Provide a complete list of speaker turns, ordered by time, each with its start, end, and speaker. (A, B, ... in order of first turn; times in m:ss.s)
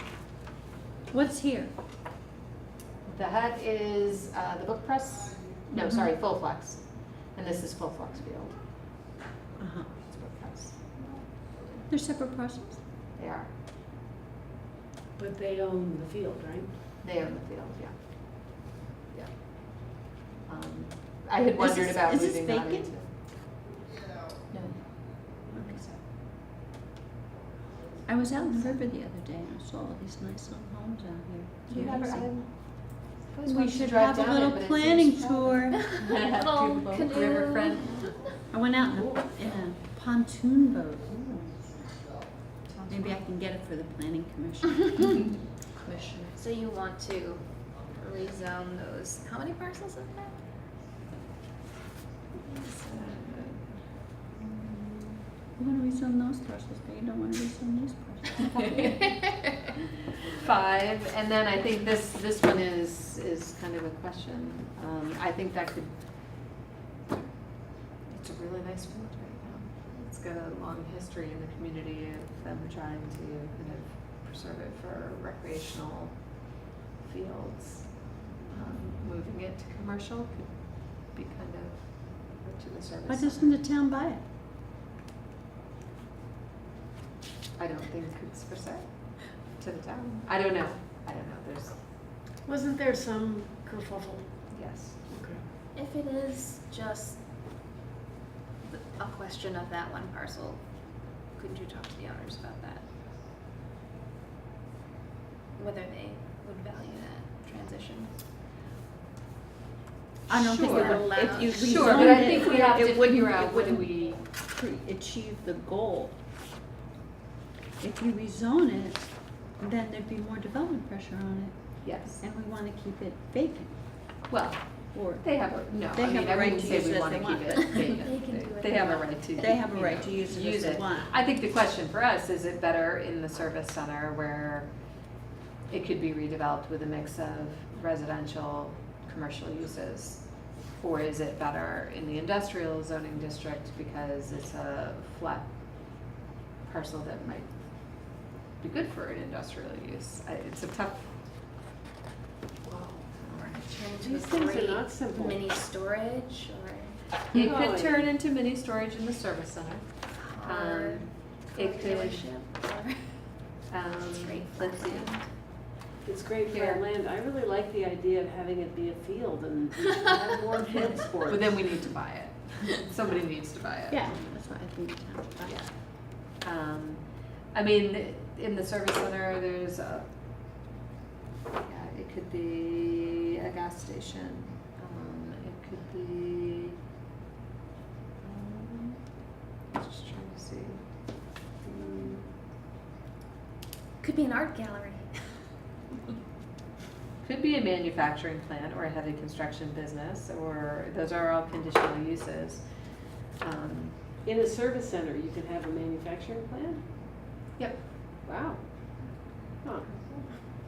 0:01.1-0:01.7 A
0:03.0-0:08.6 B
0:05.7-0:06.1 A
0:09.6-0:09.9 A
0:10.0-0:10.9 B
0:11.9-0:12.8 A
0:13.2-0:13.5 B
0:15.2-0:16.8 C
0:17.0-0:19.9 B
0:20.5-0:23.1 B
0:21.6-0:23.0 A
0:24.5-0:24.8 B
0:25.5-0:26.0 B
0:25.5-0:25.9 A
0:28.0-0:32.4 A
0:28.5-0:28.7 B
0:31.7-0:38.1 B
0:33.4-0:36.0 A
0:36.1-0:38.1 D
0:38.5-0:41.3 A
0:38.9-0:39.5 B
0:42.6-0:43.2 B
0:42.9-0:45.2 A
0:45.2-0:46.4 B
0:46.3-0:50.4 D
0:52.4-0:53.8 B
0:54.4-0:55.2 B
0:55.6-0:58.9 A
0:58.6-0:59.2 B
1:00.2-1:06.0 B
1:08.0-1:23.6 B
1:23.0-1:24.2 A
1:27.6-1:31.8 B
1:32.4-1:34.4 C
1:34.5-1:35.0 B
1:35.1-1:35.4 C
1:35.8-1:37.2 D
1:38.6-1:40.6 D
1:41.2-1:42.8 D
1:45.6-1:48.2 D
1:50.3-1:54.2 B
1:50.3-1:56.2 A
1:50.7-1:52.7 D
1:57.8-2:03.8 A
2:01.8-2:02.2 B
2:04.3-2:14.7 B
2:04.9-2:08.0 A
2:08.0-2:09.5 D
2:09.4-2:11.2 A
2:15.7-2:26.1 B
2:26.6-2:31.1 B
2:33.0-2:33.6 B
2:33.5-2:37.0 D
2:34.0-2:35.5 C
2:37.3-2:42.3 B
2:37.3-2:38.0 C
2:40.1-2:43.4 D
2:43.7-2:45.3 B
2:44.2-2:45.3 D
2:46.0-2:51.8 C
2:46.5-2:46.8 B
2:50.7-2:54.3 B
2:53.9-2:55.6 A
2:55.4-3:00.2 B
3:01.6-3:06.8 B
3:08.2-3:09.0 B
3:09.7-3:10.8 B
3:11.6-3:12.3 B
3:14.0-3:15.2 D
3:17.2-3:22.7 B
3:23.4-3:24.0 B
3:24.2-3:26.9 C
3:27.6-3:27.8 B
3:28.2-3:29.9 C
3:29.8-3:30.2 B